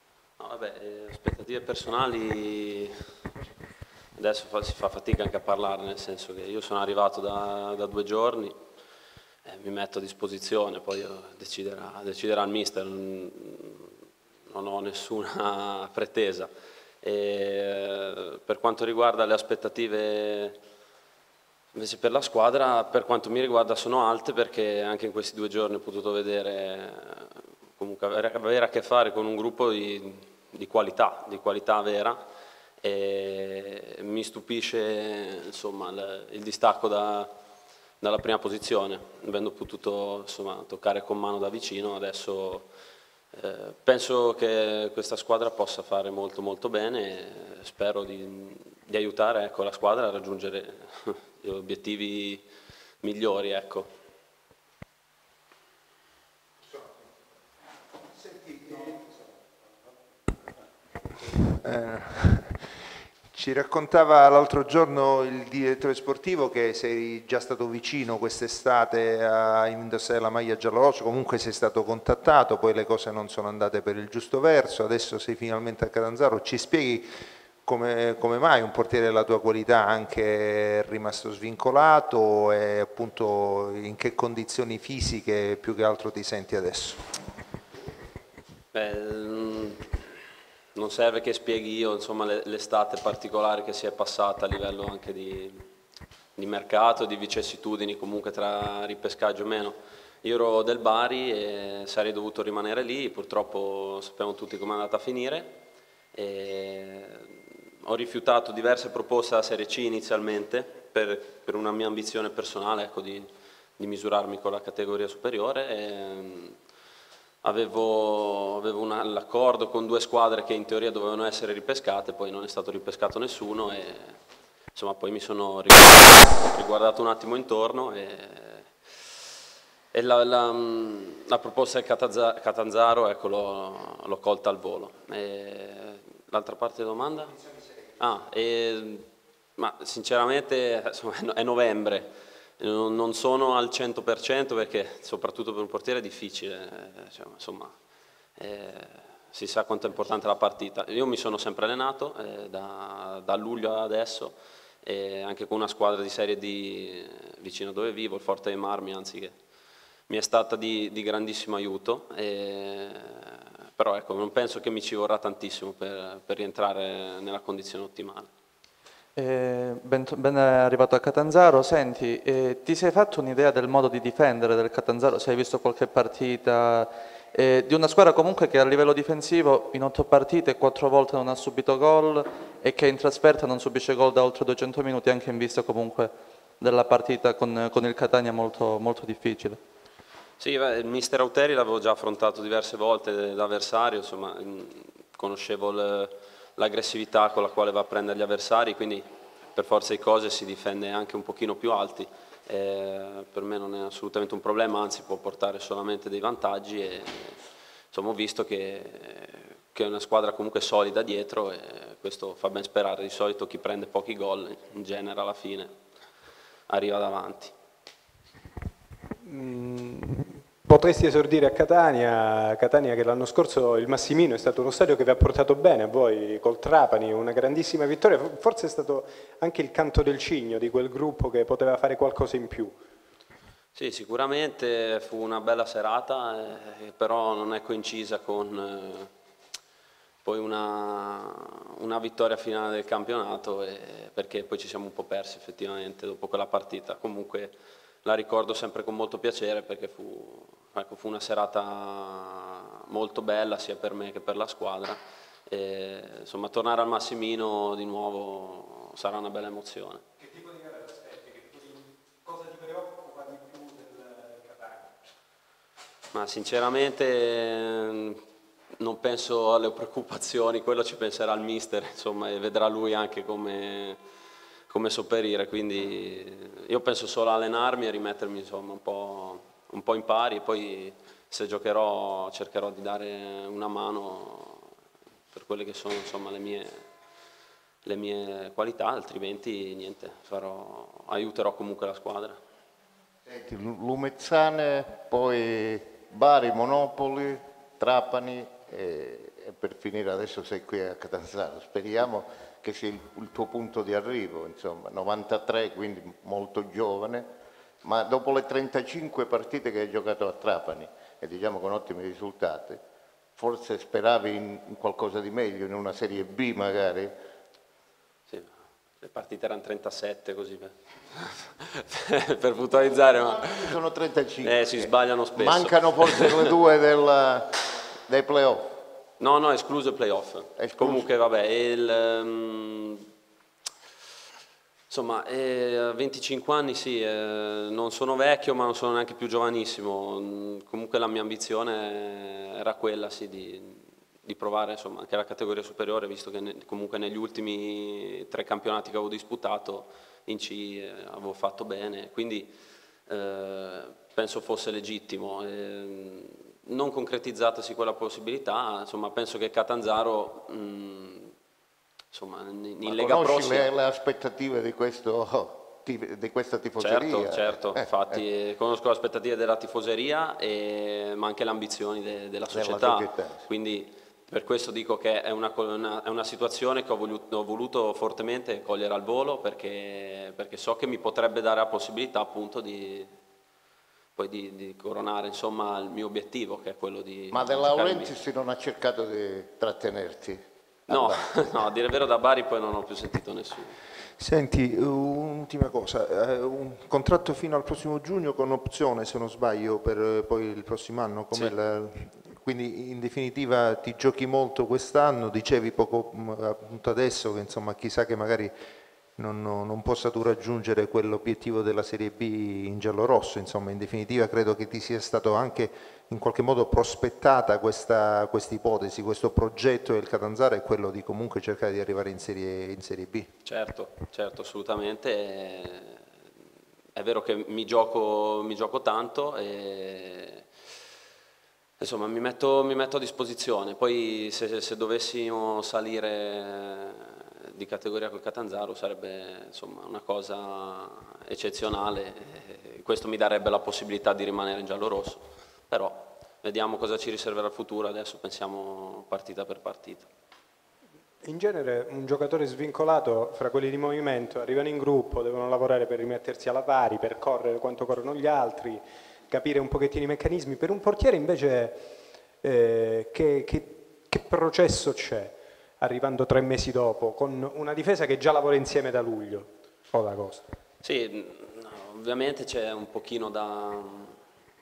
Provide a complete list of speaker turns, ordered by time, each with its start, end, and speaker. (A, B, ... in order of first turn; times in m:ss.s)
0:00.4-0:02.9 A
0:04.2-0:08.6 A
0:09.4-0:13.9 A
0:14.5-0:16.5 A
0:17.0-0:20.6 A
0:21.8-0:32.2 A
0:32.8-0:37.3 A
0:38.0-0:42.7 A
0:43.3-0:52.4 A
0:53.0-0:53.9 A
0:58.2-0:58.9 B
1:01.5-1:02.8 B
1:03.3-1:17.1 B
1:17.6-1:27.0 B
1:28.7-1:30.1 A
1:30.8-1:35.6 A
1:36.4-1:45.6 A
1:46.1-1:56.6 A
1:57.4-2:04.2 A
2:04.8-2:08.7 A
2:09.9-2:17.4 A
2:18.0-2:27.7 A
2:28.4-2:39.4 A
2:40.1-2:48.3 A
2:49.2-2:51.6 C
2:52.5-2:56.5 C
2:58.1-2:59.4 C
3:00.0-3:06.1 C
3:06.7-3:07.9 C
3:09.1-3:09.5 C
3:10.4-3:27.4 A
3:27.9-3:35.7 A
3:36.7-3:37.5 A
3:39.2-3:52.8 D
3:53.8-3:59.1 A
4:00.2-4:20.0 A
4:20.2-4:24.9 D
4:26.1-4:28.2 A
4:28.8-4:34.0 A
4:34.7-4:44.7 A
4:45.3-4:46.8 A
4:47.8-4:52.4 A
4:53.3-5:07.3 E
5:07.8-5:12.8 E
5:13.4-5:17.1 E
5:18.3-5:23.8 A
5:23.4-5:28.8 E
5:24.4-5:26.5 A
5:29.2-5:33.0 A
5:30.6-5:31.1 E
5:34.9-5:52.5 A
5:53.1-6:01.3 A
6:02.1-6:03.7 A
6:02.9-6:07.8 E
6:06.8-6:23.1 A
6:12.5-6:13.5 E
6:24.2-6:28.2 A
6:27.3-6:31.2 E
6:30.9-6:33.8 A
6:34.2-6:48.5 B
6:49.2-7:03.3 B
7:03.4-7:06.0 A
7:07.0-7:10.4 A
7:11.8-7:30.1 A
7:31.2-7:41.9 D
7:42.4-7:50.4 D
7:50.8-7:54.2 A